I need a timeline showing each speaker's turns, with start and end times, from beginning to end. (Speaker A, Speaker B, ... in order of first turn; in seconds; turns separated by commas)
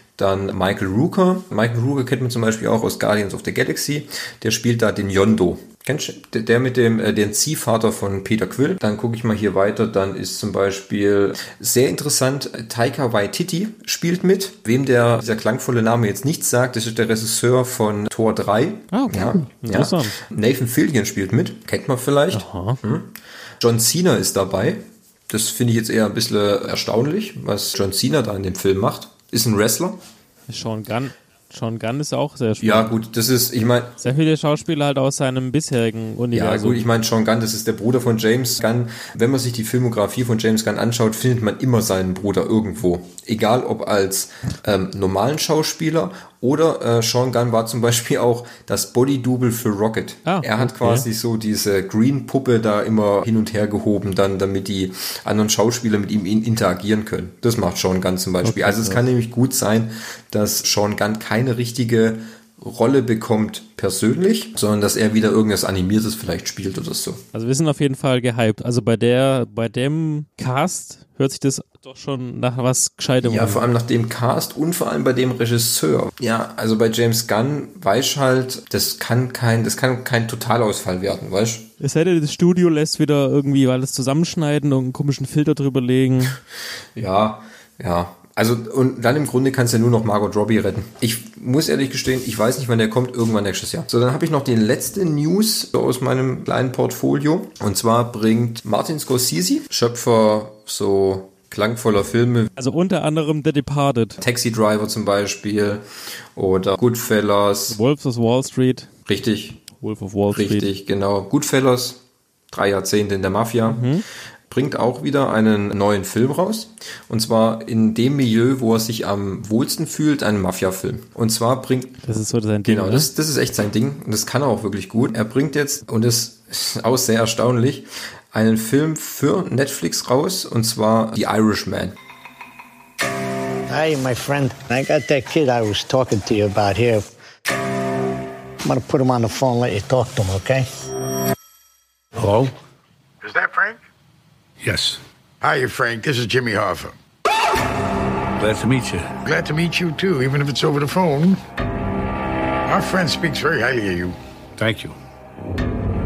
Speaker A: 0.2-30.0, Speaker B: 18.9-20.1, Speaker B: 22.3-22.8, Speaker B: 30.5-32.9, Speaker A: 32.6-33.9, Speaker B: 34.0-36.9, Speaker A: 36.3-67.2, Speaker B: 50.2-51.0, Speaker B: 58.4-59.0, Speaker B: 67.3-73.6, Speaker A: 73.2-81.7, Speaker B: 81.8-86.4, Speaker A: 86.9-102.5, Speaker B: 102.6-104.2, Speaker A: 104.2-105.8, Speaker A: 106.3-107.8, Speaker B: 107.7-108.9, Speaker A: 109.0-109.6, Speaker B: 109.8-110.7, Speaker A: 110.3-113.9, Speaker B: 113.7-114.0, Speaker A: 114.5-122.0, Speaker B: 122.0-123.1, Speaker A: 122.6-131.9, Speaker C: 133.7-137.1, Speaker C: 138.6-140.7, Speaker D: 142.2-142.5, Speaker E: 143.2-143.8, Speaker D: 144.6-145.0, Speaker E: 145.4-146.9, Speaker D: 148.4-149.1, Speaker E: 149.2-151.4, Speaker E: 152.7-154.1, Speaker D: 154.6-154.9